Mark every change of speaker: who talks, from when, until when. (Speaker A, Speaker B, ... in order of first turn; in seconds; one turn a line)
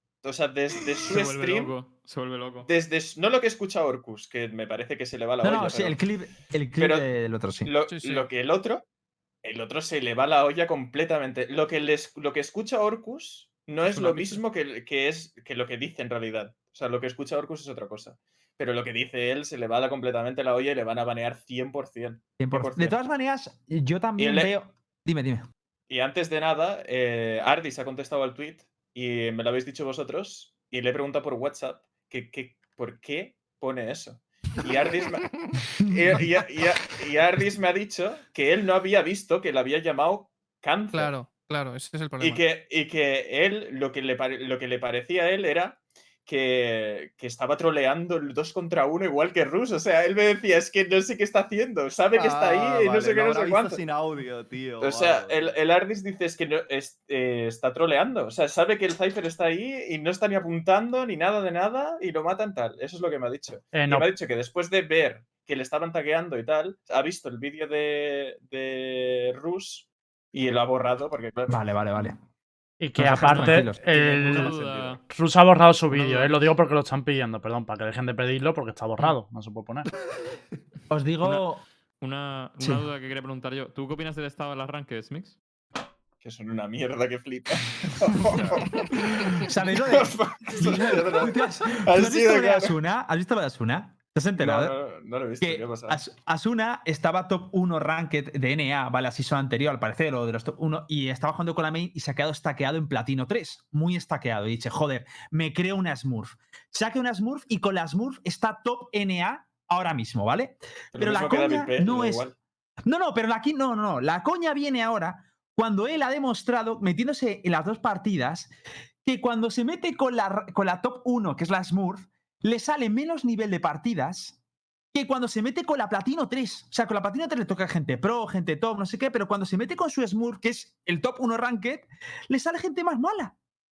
Speaker A: 0.2-1.7
Speaker B: 1.1-2.7
Speaker A: 2.6-6.0
Speaker C: 5.4-7.7
Speaker A: 6.8-7.1
Speaker A: 7.7-8.8
Speaker D: 7.9-8.3
Speaker A: 9.4-22.9
Speaker B: 13.8-14.4
Speaker C: 22.4-25.5
Speaker A: 24.2-24.5
Speaker A: 25.9-41.1
Speaker D: 40.9-42.4
Speaker A: 42.2-53.8
Speaker E: 52.1-55.5
Speaker A: 54.8-71.7
Speaker F: 63.7-64.1
Speaker C: 71.5-72.2
Speaker F: 72.8-79.9
Speaker C: 73.0-74.5
Speaker B: 73.2-73.6
Speaker E: 73.3-75.0
Speaker B: 74.3-75.0
Speaker B: 75.9-76.4
Speaker C: 80.9-81.6
Speaker B: 82.0-85.4
Speaker C: 82.6-82.8
Speaker A: 86.2-92.8
Speaker C: 89.4-94.8
Speaker A: 94.4-96.0
Speaker C: 95.4-112.3
Speaker A: 110.9-112.4
Speaker C: 112.8-118.5
Speaker C: 119.0-124.4
Speaker C: 124.9-133.3